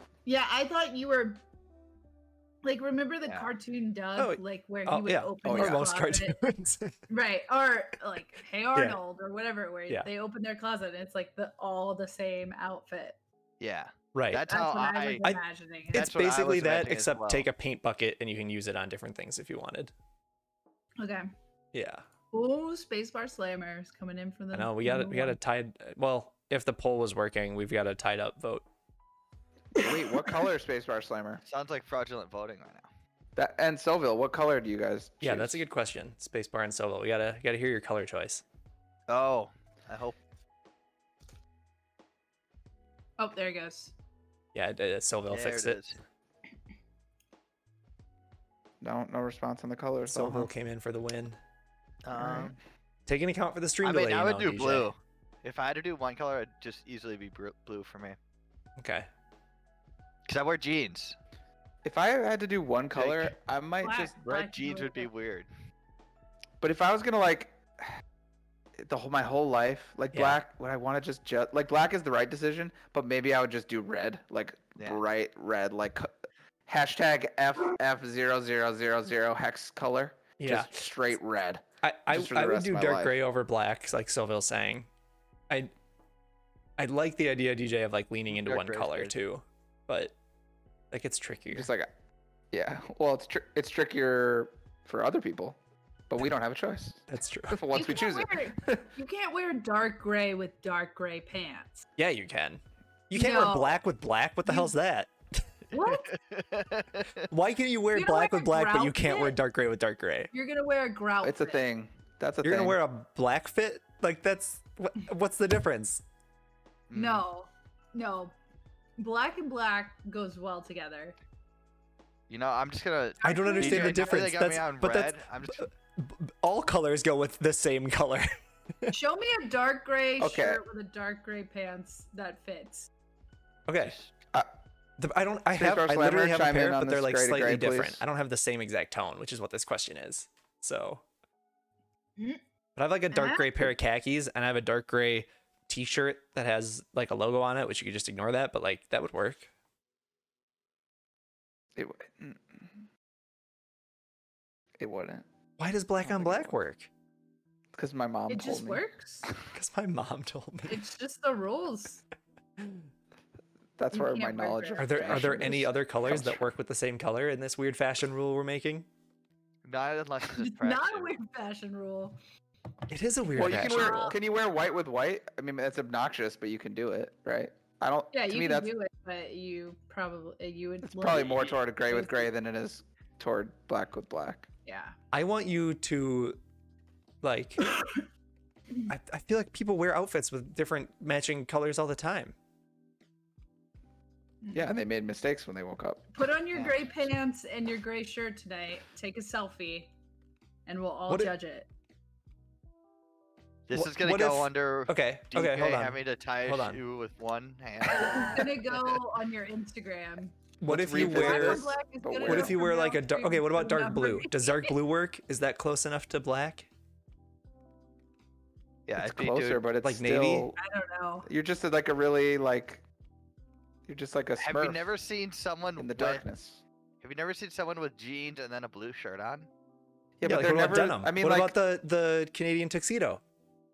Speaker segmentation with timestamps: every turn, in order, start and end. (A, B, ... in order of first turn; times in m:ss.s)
0:00.2-0:01.4 A
0:02.6-0:06.4 A
0:03.2-0:03.5 B
0:04.2-0:06.9 C
0:05.4-0:05.8 D
0:07.1-0:13.2 A
0:13.6-0:15.2 B
0:14.1-0:14.4 C
0:14.5-0:16.1 A
0:15.9-0:17.5 B
0:15.9-0:19.9 C
0:21.0-0:21.3 A
0:21.7-0:22.0 C
0:22.3-0:25.4 A
0:24.5-0:28.6 C
0:29.7-0:31.4 D
0:31.4-0:32.9 B
0:33.4-0:35.6 D
0:35.2-0:38.4 C
0:39.1-0:40.2 B
0:43.2-0:43.9 A
0:44.5-0:45.8 C
0:45.3-0:46.0 B
0:48.8-0:50.5 D
0:50.0-0:51.4 C
0:52.0-0:52.5 B
0:52.1-0:52.6 D
0:53.1-0:54.9 C
0:53.8-0:58.2 B
0:58.8-0:59.1 C
1:00.3-1:01.2 B
1:01.8-1:04.5 D
1:02.9-1:03.3 B
1:03.8-1:05.1 A
1:04.3-1:05.5 B
1:06.6-1:07.9 D
1:08.8-1:16.1 D
1:10.1-1:10.4 C
1:16.7-1:23.1 D
1:20.4-1:20.8 C
1:21.8-1:24.9 C
1:26.8-1:30.1 C
1:28.3-1:29.1 B
1:30.9-1:31.7 C
1:31.5-1:31.9 D
1:32.5-1:35.6 D
1:36.1-1:38.9 D
1:37.1-1:37.6 C
1:37.7-1:41.8 A
1:42.0-1:45.4 C
1:43.1-1:43.8 A
1:44.4-1:44.7 A
1:45.7-1:46.1 A
1:45.8-1:47.3 B
1:47.3-1:50.3 C
1:47.9-1:49.4 A
1:50.3-1:51.6 A
1:51.2-1:52.8 D
1:52.4-1:56.0 C
1:56.9-1:57.2 B
1:56.9-1:58.3 A
1:59.0-2:01.2 A
2:02.3-2:05.7 B
2:03.2-2:04.2 A
2:03.2-2:08.3 C
2:08.9-2:12.9 A
2:10.2-2:10.6 D
2:13.7-2:14.0 C
2:13.8-2:14.1 B
2:15.0-2:21.0 C
2:15.6-2:18.0 D
2:22.8-2:29.5 C
2:23.1-2:23.7 A
2:31.8-2:32.8 D
2:34.8-2:35.2 D
2:35.6-2:36.9 C
2:36.0-2:36.6 D
2:37.7-2:38.8 D
2:38.3-2:39.3 A
2:39.5-2:40.8 C
2:40.7-2:42.0 A
2:42.6-2:42.8 C
2:43.8-2:46.4 D
2:43.9-2:45.3 A
2:44.8-2:48.9 C
2:49.6-2:51.1 B
2:50.4-2:52.2 A
2:52.9-2:54.1 C
2:53.3-2:54.2 A
2:53.3-2:58.7 D
2:58.1-3:02.3 A
3:00.8-3:04.5 D
3:04.6-3:05.0 A
3:05.1-3:06.4 C
3:07.2-3:07.7 C
3:07.7-3:08.0 A
3:08.9-3:12.3 C
3:14.4-3:14.7 A
3:14.5-3:16.8 D
3:16.1-3:19.9 A
3:20.6-3:21.7 A
3:21.1-3:21.3 C
3:23.7-3:29.0 B
3:23.7-3:26.8 C
3:27.9-3:30.4 A
3:30.6-3:31.6 C
3:30.7-3:32.6 D
3:30.9-3:34.7 A
3:32.2-3:36.7 C
3:38.9-3:39.6 B
3:39.0-3:40.5 D
3:39.8-3:40.5 C
3:40.6-3:41.3 A
3:41.2-3:42.8 D
3:43.9-3:44.8 D
3:44.4-3:46.2 B
3:45.8-3:46.6 D
3:47.0-3:49.5 B
3:50.2-3:51.6 D
3:50.2-3:53.2 C